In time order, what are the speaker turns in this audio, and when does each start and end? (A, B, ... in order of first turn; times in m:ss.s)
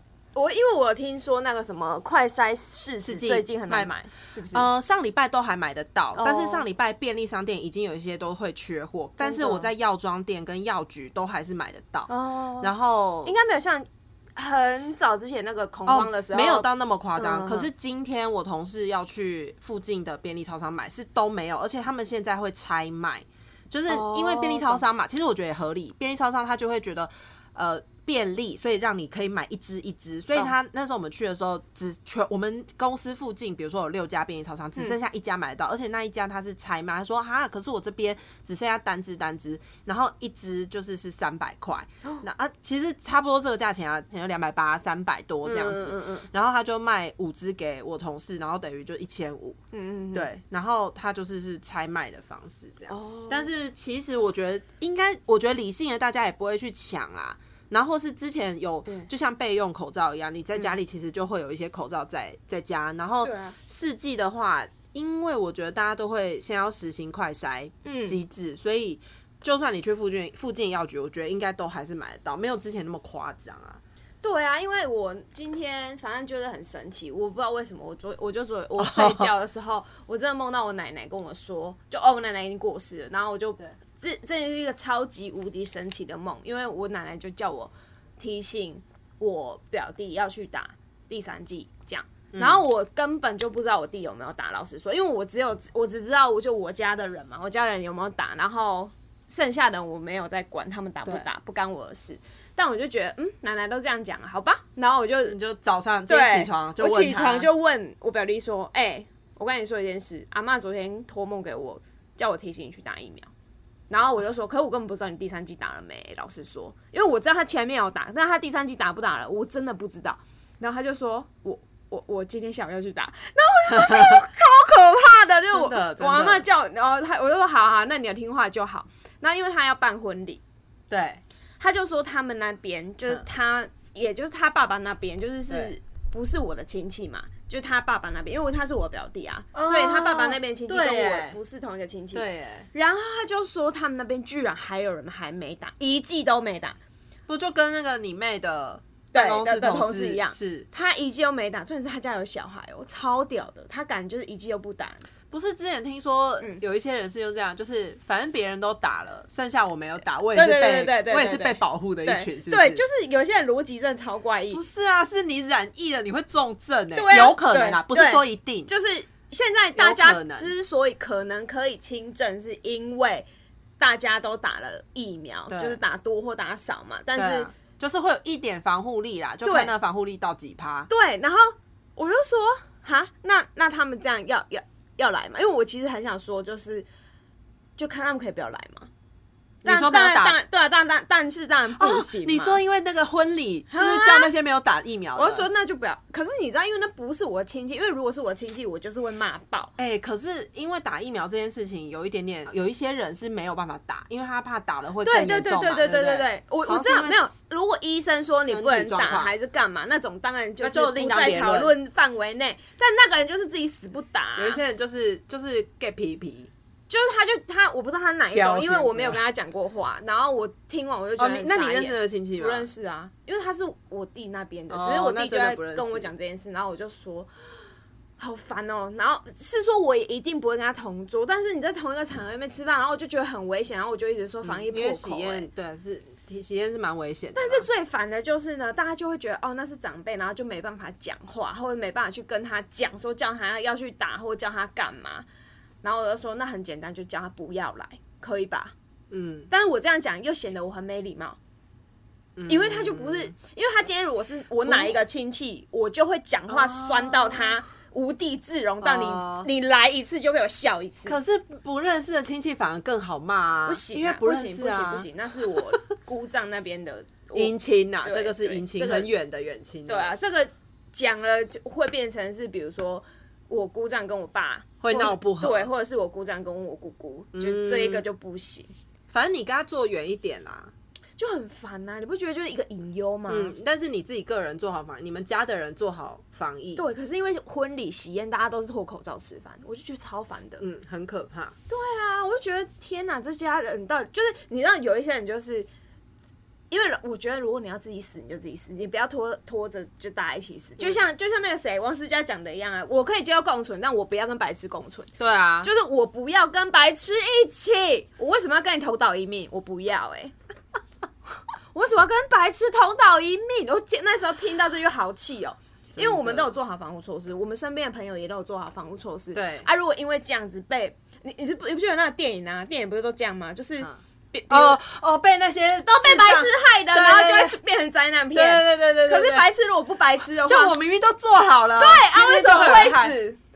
0:00.3-0:04.7 A
0:03.0-0:03.9 B
0:04.5-0:13.3 B
0:06.1-0:06.6 A
0:09.2-0:09.7 A
0:12.1-0:12.7 A
0:13.2-0:17.7 A
0:15.8-0:49.6 B
0:23.9-0:24.8 A
0:45.4-0:46.3 A
0:49.7-0:50.3 A
0:50.1-1:13.8 B
0:52.9-0:53.5 A
1:03.2-1:03.6 A
1:07.8-1:08.2 A
1:14.2-1:45.4 A
1:18.8-1:19.3 B
1:32.3-1:32.6 B
1:45.2-1:47.5 B
1:46.1-1:53.3 A
1:53.9-2:10.4 A
2:03.7-2:04.1 B
2:05.5-2:06.4 B
2:10.9-2:11.2 B
2:11.6-2:26.8 A
2:19.5-2:21.4 B
2:22.1-2:22.7 B
2:27.3-2:30.7 B
2:29.1-2:35.0 A
2:35.3-2:42.8 B
2:40.3-2:44.6 A
2:44.5-2:48.7 B
2:46.9-2:53.2 A
2:49.7-2:50.5 B
2:53.8-2:57.5 A
2:55.5-2:55.8 B
2:57.1-3:00.9 B
2:59.4-2:59.7 A
3:00.9-3:06.8 A
3:07.8-3:08.9 A
3:09.6-3:10.4 B
3:09.6-3:12.6 A
3:11.8-3:15.5 B
3:13.7-3:14.3 A
3:15.2-3:19.7 A
3:19.8-3:27.3 B
3:25.0-3:34.6 A
3:28.5-3:29.3 B
3:30.6-3:31.7 B
3:34.4-3:36.5 B
3:36.9-3:47.3 A
3:38.3-3:39.2 B
3:41.2-3:42.7 B
3:44.7-3:46.1 B
3:48.2-3:55.5 A
3:54.4-3:57.6 B
3:57.3-4:05.2 A
4:05.8-4:08.7 A
4:09.1-4:09.5 B
4:09.5-4:11.4 A
4:12.4-4:13.3 B
4:12.5-4:21.2 A
4:14.6-4:15.0 B
4:16.5-4:17.6 B
4:18.8-4:19.5 B
4:21.0-4:25.6 B
4:23.7-4:29.1 A
4:27.3-4:30.1 B
4:29.9-4:38.7 A
4:34.8-4:35.7 B
4:37.3-4:38.0 B
4:39.1-4:40.7 B
4:41.2-4:43.5 A
4:43.3-4:46.8 B
4:46.8-4:50.6 A
4:50.6-4:51.5 B
4:51.7-4:55.7 A
4:56.7-5:05.1 A
5:05.2-5:05.7 B
5:05.6-5:10.3 A
5:11.7-5:24.8 A
5:15.9-5:16.5 B
5:19.3-5:19.7 B
5:24.5-5:27.6 B
5:25.8-5:30.8 A
5:28.3-5:29.5 B
5:30.4-5:33.2 B
5:31.8-5:33.4 A